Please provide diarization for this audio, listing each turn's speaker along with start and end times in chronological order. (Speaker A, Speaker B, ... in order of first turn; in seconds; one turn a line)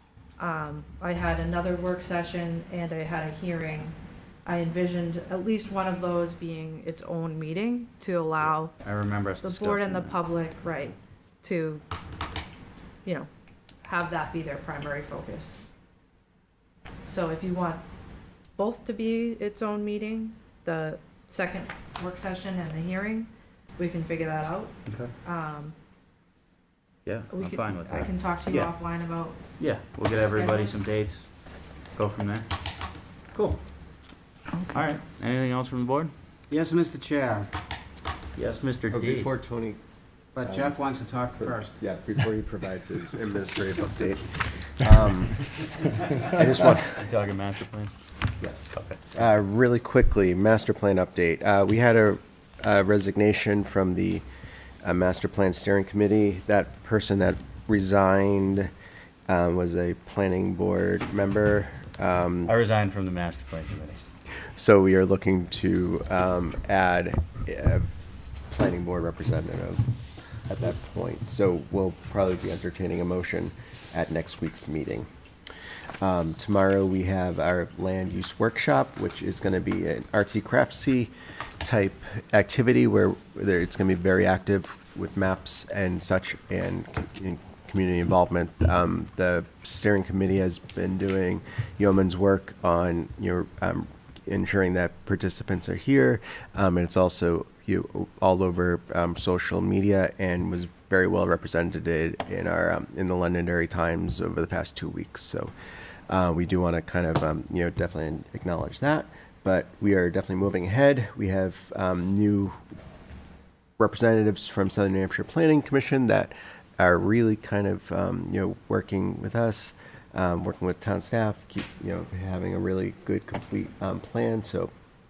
Speaker A: 0.4-8.8
Speaker B: 8.4-10.2
Speaker A: 9.4-11.8
Speaker A: 13.8-15.6
Speaker A: 17.0-17.8
Speaker A: 18.6-25.7
Speaker B: 24.9-25.1
Speaker B: 27.0-28.7
Speaker A: 27.3-29.4
Speaker B: 29.6-31.3
Speaker A: 30.1-30.8
Speaker B: 31.9-32.5
Speaker B: 33.3-33.6
Speaker B: 34.7-36.1
Speaker C: 36.5-37.5
Speaker B: 38.3-39.3
Speaker D: 38.9-39.8
Speaker C: 40.3-41.8
Speaker D: 40.4-40.8
Speaker D: 41.4-47.0
Speaker B: 46.7-47.9
Speaker D: 48.4-54.2
Speaker B: 48.7-49.0
Speaker D: 54.8-58.7
Speaker D: 59.3-62.5
Speaker B: 62.5-64.0
Speaker D: 64.5-67.9
Speaker D: 68.5-69.8
Speaker D: 70.5-75.1
Speaker D: 76.0-105.5
Speaker D: 106.1-112.5
Speaker D: 113.8-124.7